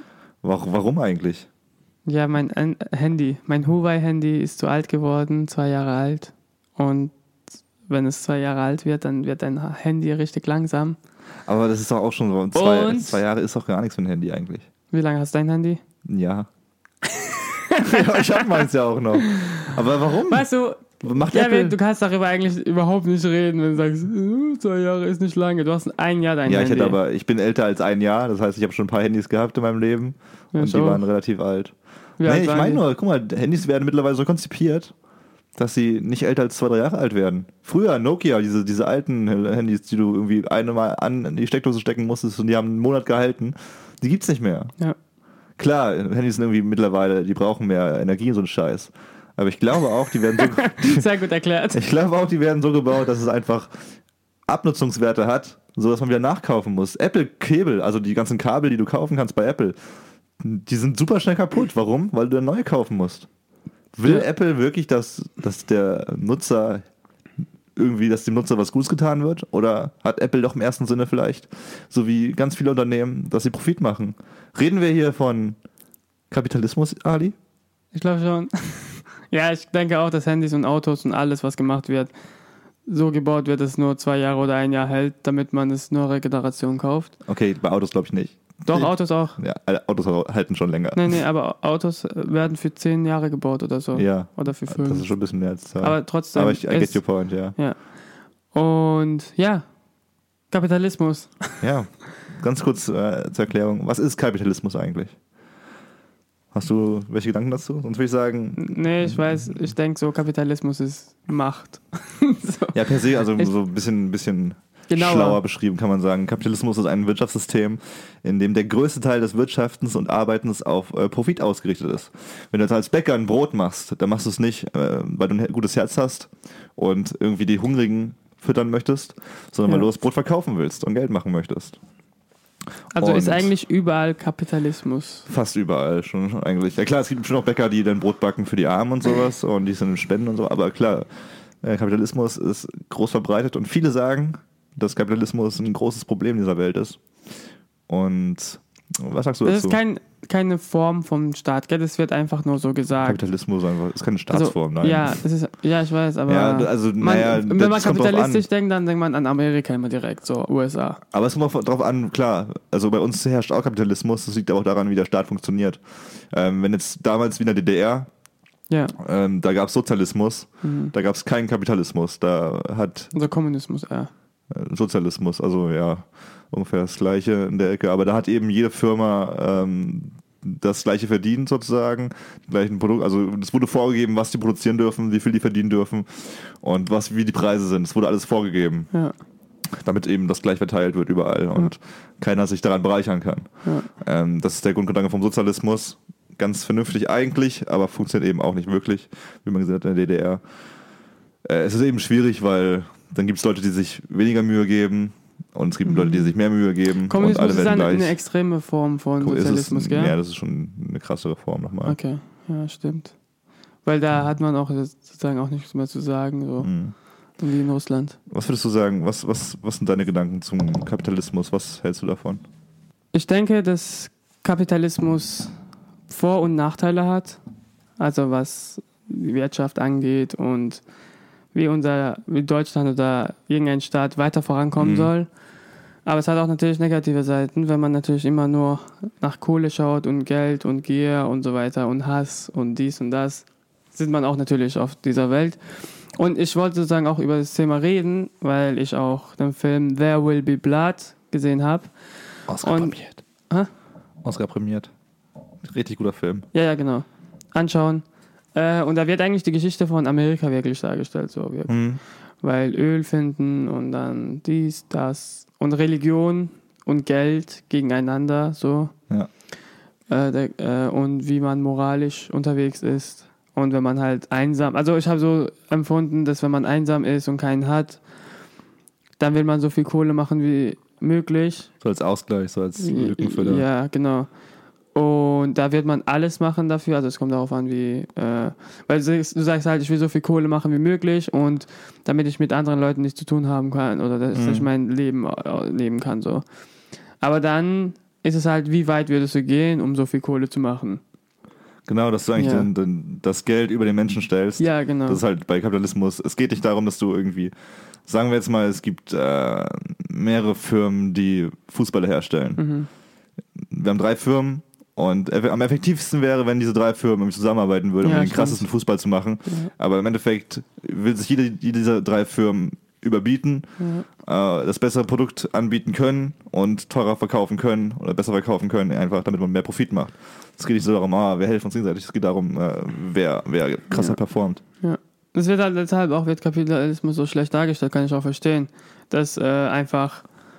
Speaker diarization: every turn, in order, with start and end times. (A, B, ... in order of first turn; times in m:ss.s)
0:00.4-0:01.5 A
0:02.1-0:07.1 B
0:07.9-0:11.0 B
0:11.5-0:14.7 A
0:12.5-0:13.2 B
0:14.9-0:15.8 B
0:16.0-0:16.5 A
0:17.0-0:18.7 B
0:17.8-0:20.5 A
0:19.2-0:19.5 B
0:20.3-0:27.0 B
0:21.0-0:21.8 A
0:26.5-0:34.9 A
0:30.5-0:31.0 B
0:32.2-0:32.8 B
0:35.6-0:44.7 A
0:45.6-0:51.0 A
0:50.7-0:51.8 B
0:51.7-0:53.8 A
0:54.5-0:59.8 A
1:00.4-1:03.3 A
1:04.0-1:06.8 A
1:07.8-1:15.6 A
1:16.3-1:17.4 A
1:17.9-1:22.1 B
1:22.9-1:27.1 B
1:27.3-1:31.2 A
1:28.6-1:29.4 B
1:30.9-1:37.9 B
1:33.9-1:37.6 A
1:38.5-1:39.6 B
1:40.5-1:41.6 B
1:41.6-1:45.2 A
1:46.5-1:49.7 A
1:48.6-1:53.5 B
1:52.7-2:11.8 A
1:54.9-1:55.4 B
2:12.9-2:15.3 B
2:13.0-2:13.5 A
2:15.3-2:21.1 A
2:21.6-2:27.0 A
2:27.9-2:29.8 A
2:29.4-2:33.2 B
2:33.0-2:35.2 A
2:34.3-2:41.0 B
2:36.3-2:38.4 A
2:41.1-2:48.1 A
2:48.7-2:49.0 B
2:49.0-2:53.1 A
2:50.6-2:50.9 B
2:53.1-2:54.1 B
2:54.5-3:08.9 A
3:09.8-3:20.4 A
3:13.6-3:13.9 B
3:21.4-3:28.2 A
3:25.9-3:26.4 B
3:27.1-3:30.2 B
3:29.2-3:32.0 A
3:31.8-3:33.2 B
3:33.8-3:38.2 B
3:36.6-3:36.9 A
3:38.3-3:42.4 A
3:43.1-3:47.4 B
3:48.0-3:50.8 B
3:51.5-3:55.3 B
3:54.8-3:55.1 A
3:56.0-4:13.7 B
4:12.5-4:13.2 A
4:14.2-4:14.9 A
4:15.6-4:16.5 A
4:16.5-4:29.0 B
4:21.7-4:22.0 A
4:30.1-4:38.0 B
4:39.2-4:41.7 B
4:41.8-4:43.6 A
4:42.8-4:44.3 B
4:44.9-4:56.5 B
4:54.3-4:54.7 A
4:57.2-5:01.0 B
5:01.9-5:07.5 A
5:02.4-5:02.7 B
5:04.6-5:05.2 B
5:08.0-5:12.6 A
5:12.6-5:12.9 B
5:13.6-5:34.6 A
5:18.0-5:18.7 B
5:19.5-5:19.7 B
5:23.8-5:24.0 B
5:33.9-5:40.3 B